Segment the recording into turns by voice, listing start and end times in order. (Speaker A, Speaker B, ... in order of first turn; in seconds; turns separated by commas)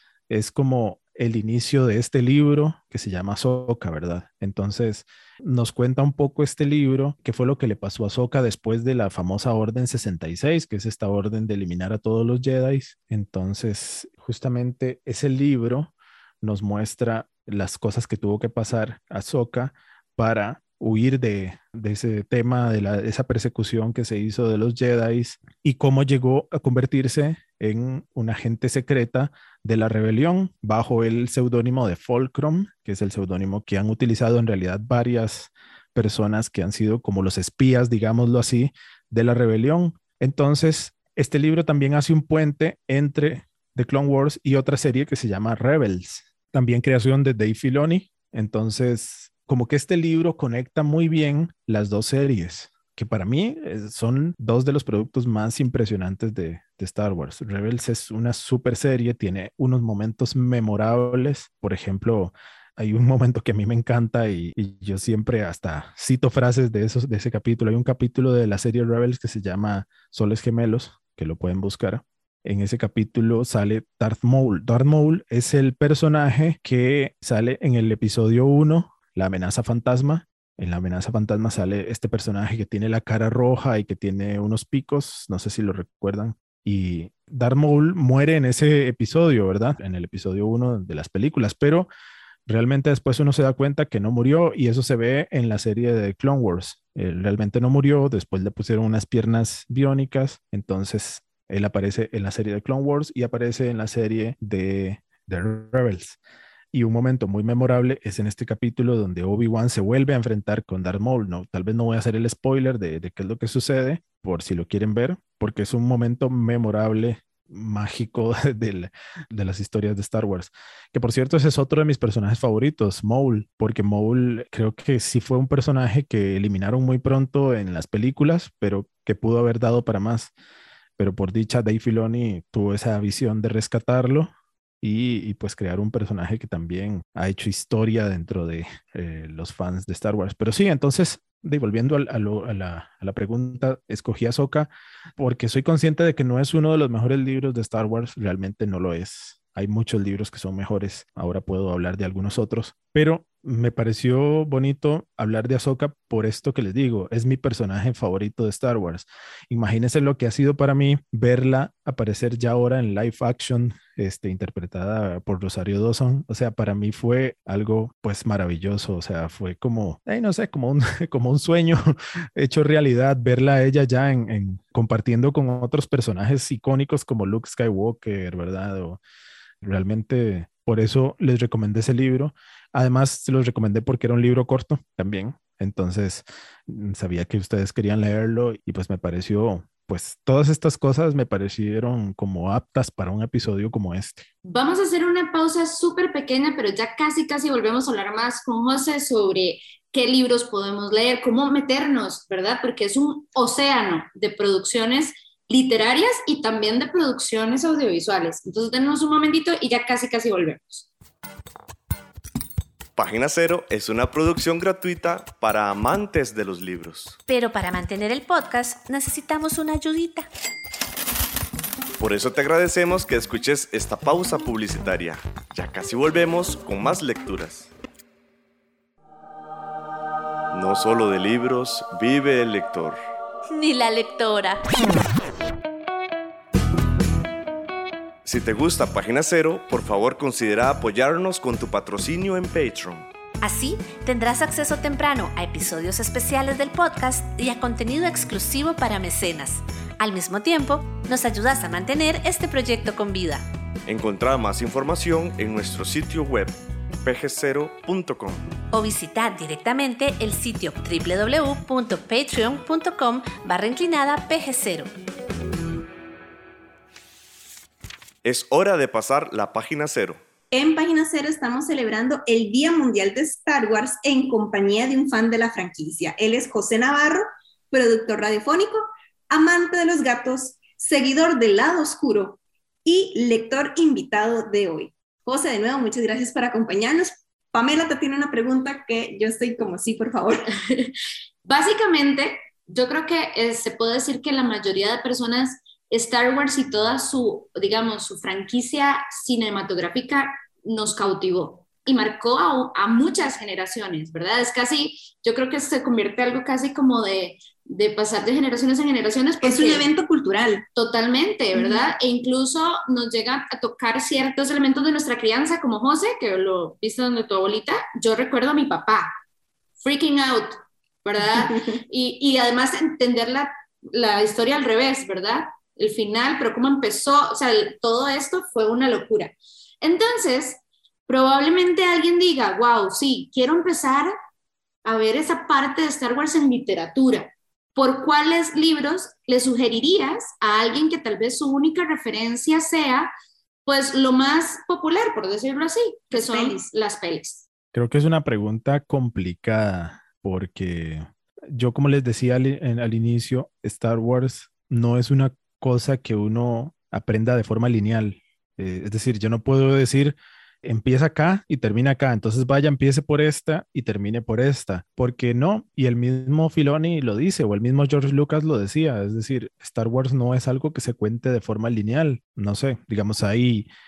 Speaker A: 0.3-91.9, Speaker A: 92.5-106.2, Speaker A: 106.7-130.3, Speaker A: 131.0-179.0, Speaker A: 179.6-194.3, Speaker B: 194.4-210.9, Speaker C: 213.0-217.2, Speaker D: 217.3-220.3, Speaker C: 222.0-227.7, Speaker C: 230.5-233.0, Speaker D: 233.5-234.7, Speaker C: 238.2-243.1, Speaker D: 243.4-253.5, Speaker C: 253.9-258.5, Speaker D: 258.7-264.9, Speaker C: 268.2-270.2, Speaker E: 270.5-278.8, Speaker E: 279.3-290.4, Speaker B: 290.6-309.9, Speaker E: 309.4-310.6, Speaker B: 310.8-319.1, Speaker E: 311.6-311.8, Speaker B: 319.8-334.1, Speaker E: 321.3-321.8, Speaker B: 334.9-343.1, Speaker B: 343.6-347.4, Speaker E: 346.1-346.6, Speaker A: 347.7-373.7